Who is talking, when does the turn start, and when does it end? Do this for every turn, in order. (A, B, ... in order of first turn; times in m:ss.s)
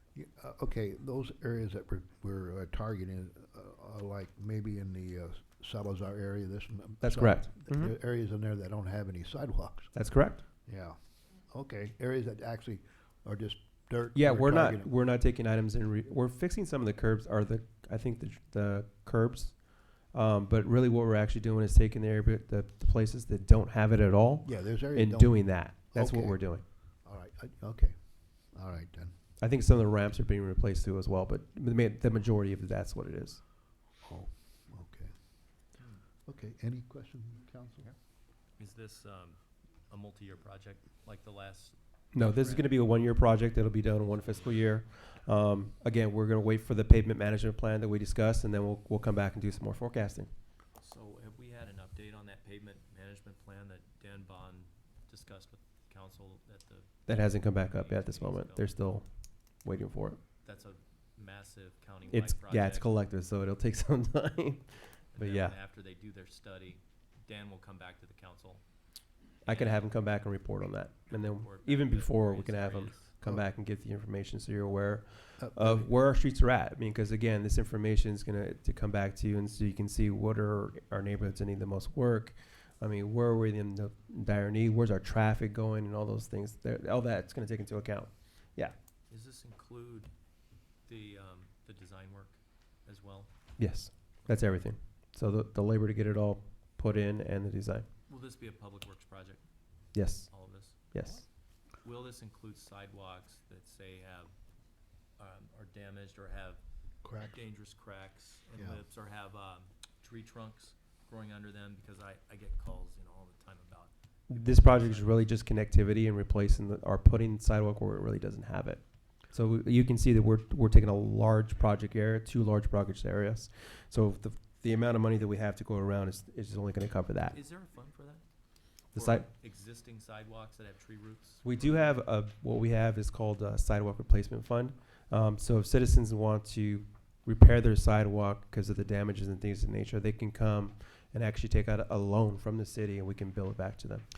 0:00.1-0:09.9 A
0:07.0-0:08.0 B
0:09.9-0:10.4 B
0:10.7-0:11.0 A
0:11.5-0:14.9 A
0:14.1-0:26.6 B
0:24.4-0:29.2 A
0:29.4-0:33.4 B
0:34.0-0:35.1 A
0:35.8-0:36.0 C
0:36.3-0:37.9 A
0:38.6-0:42.9 C
0:42.1-0:50.3 B
0:44.1-0:44.7 C
0:50.8-0:58.9 C
0:57.1-1:00.2 B
1:00.4-1:02.9 C
1:02.1-1:05.6 B
1:05.1-1:08.6 C
1:09.4-1:28.8 B
1:09.5-1:09.9 C
1:11.1-1:13.1 C
1:15.4-1:15.9 A
1:29.1-1:30.1 C
1:30.9-1:33.3 C
1:33.6-1:37.9 B
1:38.1-1:39.4 C
1:39.9-1:40.3 B
1:40.3-1:40.9 C
1:40.9-1:41.2 B
1:41.8-1:44.3 C
1:45.2-1:46.6 C
1:47.0-1:47.4 A
1:47.2-1:55.3 C
1:48.6-1:48.8 A
1:54.3-2:07.4 B
2:07.3-2:08.2 C
2:08.9-2:09.3 B
2:08.9-2:12.0 C
2:11.4-2:24.1 B